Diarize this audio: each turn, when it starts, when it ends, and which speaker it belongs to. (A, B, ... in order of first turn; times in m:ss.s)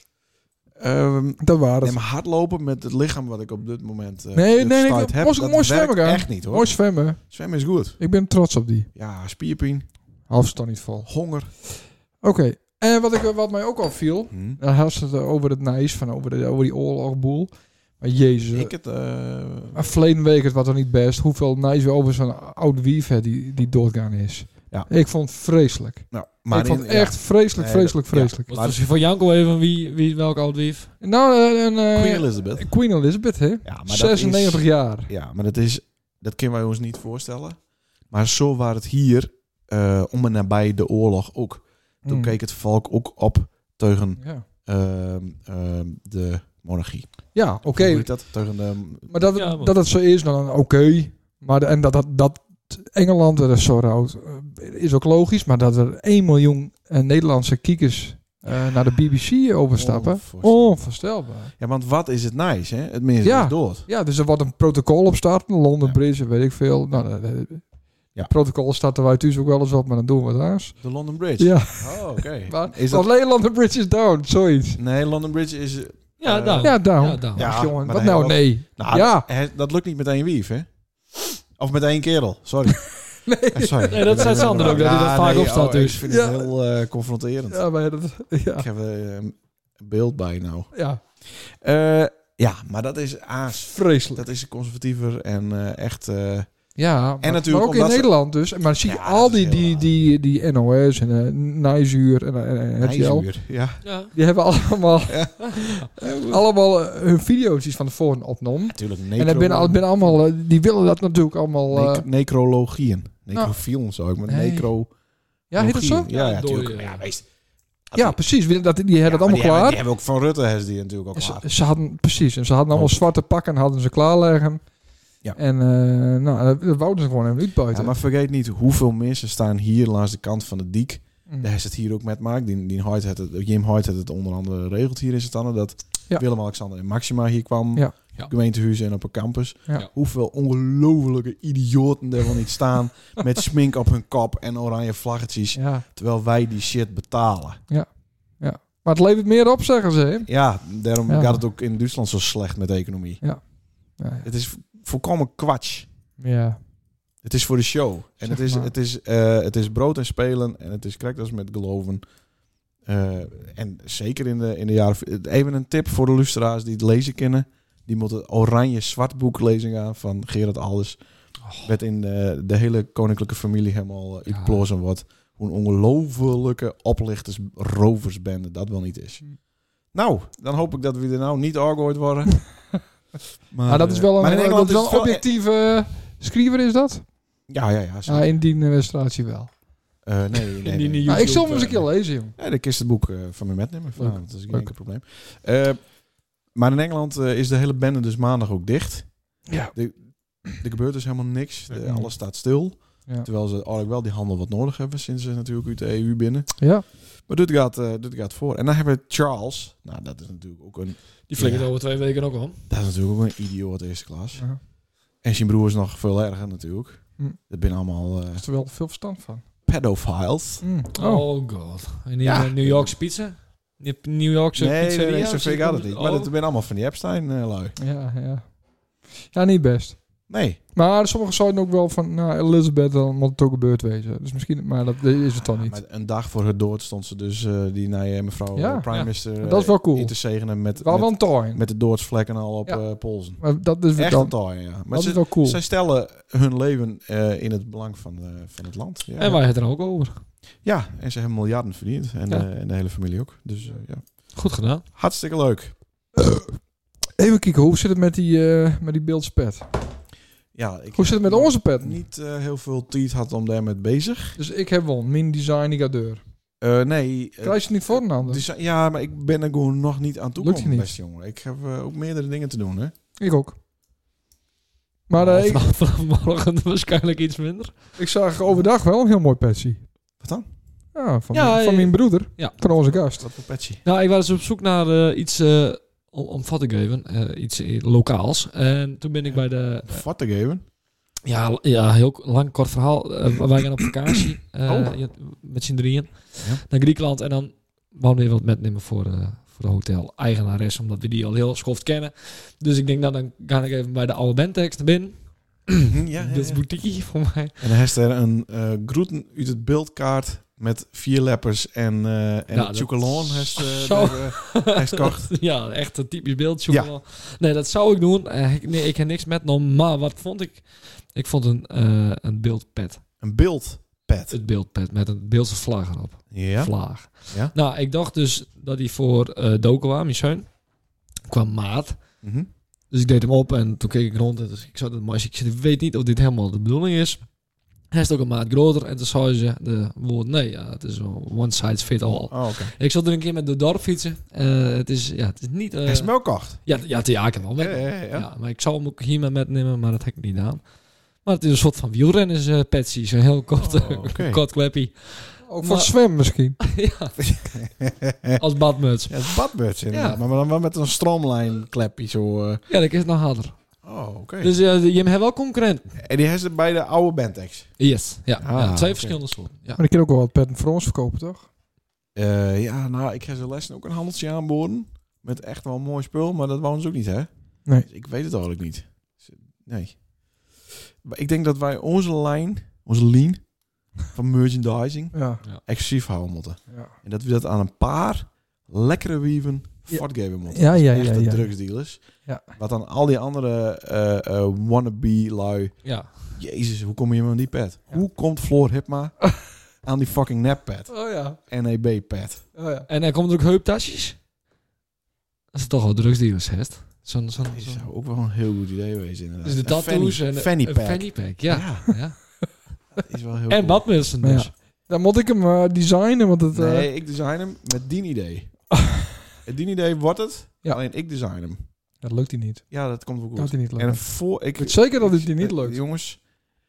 0:00.8-0:08.0 A
0:01.4-0:02.0 B
0:04.3-0:07.2 B
0:08.0-0:08.9 B
0:09.0-0:09.9 A
0:10.3-0:11.1 B
0:11.1-0:11.5 A
0:12.2-0:18.7 B
0:14.3-0:14.6 A
0:18.5-0:19.9 A
0:19.7-0:28.5 B
0:26.1-0:28.8 A
0:28.5-0:30.9 C
0:31.0-0:35.1 B
0:31.9-0:32.7 A
0:33.6-0:37.6 A
0:38.1-0:49.1 A
0:42.0-0:42.4 B
0:44.2-0:44.4 B
0:47.3-0:48.1 B
0:49.1-1:01.5 B
0:49.3-0:49.7 C
0:59.8-1:00.9 A
1:01.6-1:03.8 A
1:03.2-1:10.8 B
1:10.8-1:13.1 A
1:11.4-1:14.8 B
1:14.8-1:20.7 A
1:16.2-1:17.5 C
1:16.6-1:19.3 B
1:21.6-1:27.6 A
1:23.2-1:24.9 B
1:23.9-1:26.0 C
1:26.1-1:26.5 B
1:27.5-1:28.7 B
1:28.6-1:36.5 A
1:30.7-1:31.0 B
1:33.7-1:34.2 B
1:36.8-1:43.3 B
1:37.2-1:38.1 A
1:38.8-1:39.9 A
1:42.8-1:43.8 A
1:43.8-1:44.1 C
1:44.1-1:52.0 B
1:45.1-1:46.4 A
1:45.4-1:45.9 C
1:48.7-1:50.1 A
1:51.7-1:54.9 A
1:54.3-1:54.7 B
1:55.5-1:56.1 B
1:55.5-1:57.2 A
1:56.1-1:57.0 C
1:57.9-1:58.2 A
1:58.0-1:59.8 B
1:59.0-2:01.4 A
2:01.2-2:04.6 B
2:02.7-2:03.1 A
2:05.4-2:08.0 B
2:07.7-2:27.6 A
2:11.3-2:11.5 B
2:25.6-2:25.8 B
2:27.7-2:30.3 B
2:30.3-2:33.2 A
2:31.1-2:31.4 B
2:33.2-2:34.3 B
2:34.2-2:35.9 A
2:36.2-2:36.6 B
2:37.2-2:42.0 A
2:38.2-2:38.7 B
2:42.8-2:51.0 A
2:51.4-2:51.7 C
2:51.6-2:59.2 A
2:54.3-2:54.6 C
2:59.9-3:02.6 A
3:03.5-3:05.2 A
3:03.7-3:07.1 B
3:07.5-3:08.3 A
3:08.1-3:09.5 B
3:10.0-3:11.6 A
3:10.6-3:11.8 C
3:11.1-3:12.4 B
3:12.4-3:16.0 A
3:14.0-3:14.7 B
3:16.5-3:31.7 A
3:19.5-3:19.7 B
3:21.7-3:22.1 B
3:26.6-3:26.9 B
3:31.3-3:32.6 C
3:32.7-3:34.4 A
3:35.2-3:38.4 A
3:38.4-3:39.4 B
3:39.7-3:40.6 A
3:40.6-3:41.3 B
3:41.0-3:46.3 C
3:42.2-3:43.0 A
3:44.6-3:47.8 A
3:47.8-3:48.6 B
3:49.2-3:50.2 B
3:50.3-3:50.6 A
3:50.7-3:55.8 B
3:55.4-4:03.4 A
3:58.6-4:00.2 B
4:00.8-4:01.6 B
4:03.4-4:05.6 B
4:04.0-4:09.4 A
4:09.2-4:10.2 C
4:10.6-4:14.3 A
4:14.4-4:14.8 C
4:14.9-4:15.8 A
4:16.2-4:16.6 B
4:17.2-4:19.7 B
4:20.6-4:24.4 A
4:20.9-4:22.0 B
4:24.4-4:26.2 B
4:26.6-4:32.9 A
4:27.4-4:28.4 B
4:30.4-4:30.9 B
4:33.2-4:33.6 B
4:35.1-4:35.6 B
4:35.2-4:37.9 C
4:38.0-4:39.8 B
4:40.2-4:40.5 A
4:41.0-4:43.2 B
4:41.3-4:42.6 C
4:42.7-4:43.8 A
4:43.8-4:50.0 C
4:49.3-4:50.6 A
4:51.2-5:07.7 C
4:54.7-4:54.9 A
5:05.9-5:06.6 A
5:07.6-5:15.3 A
5:12.5-5:23.0 C
5:16.7-5:16.9 A
5:23.2-5:24.4 A
5:24.3-5:30.5 C
5:26.3-5:26.7 A
5:27.3-5:27.5 A
5:31.3-5:32.0 C
5:32.2-5:32.5 A
5:32.9-5:37.3 C
5:37.9-5:50.6 C
5:42.1-5:42.7 A
5:45.8-5:46.6 A
5:47.6-5:48.3 A
5:51.2-5:55.9 C
5:53.6-5:54.4 A
5:55.4-5:56.6 B
5:56.6-5:57.4 C
5:57.2-5:58.4 A
5:58.4-5:59.4 C
5:59.1-6:02.6 A
5:59.9-6:00.2 C
6:02.7-6:03.5 C
6:03.8-6:04.6 A
6:04.4-6:06.0 C
6:06.0-6:07.8 A
6:07.8-6:09.8 C
6:08.4-6:09.2 A
6:09.8-6:11.5 B
6:12.2-6:20.0 A
6:20.6-6:23.5 A
6:24.0-6:39.2 A
6:25.1-6:25.4 B
6:29.9-6:31.5 B
6:35.8-6:36.3 C
6:39.8-6:42.4 A
6:40.9-6:41.4 B
6:42.6-6:42.9 B
6:42.9-6:44.2 C
6:45.5-6:47.9 C
6:47.5-6:52.0 A
6:49.4-6:52.5 C
6:53.0-6:53.9 A
6:53.5-6:54.5 C
6:54.2-6:56.9 B
6:56.5-6:58.6 A
6:59.4-7:01.6 A
7:02.0-7:02.6 B
7:02.7-7:06.2 A
7:03.4-7:05.8 B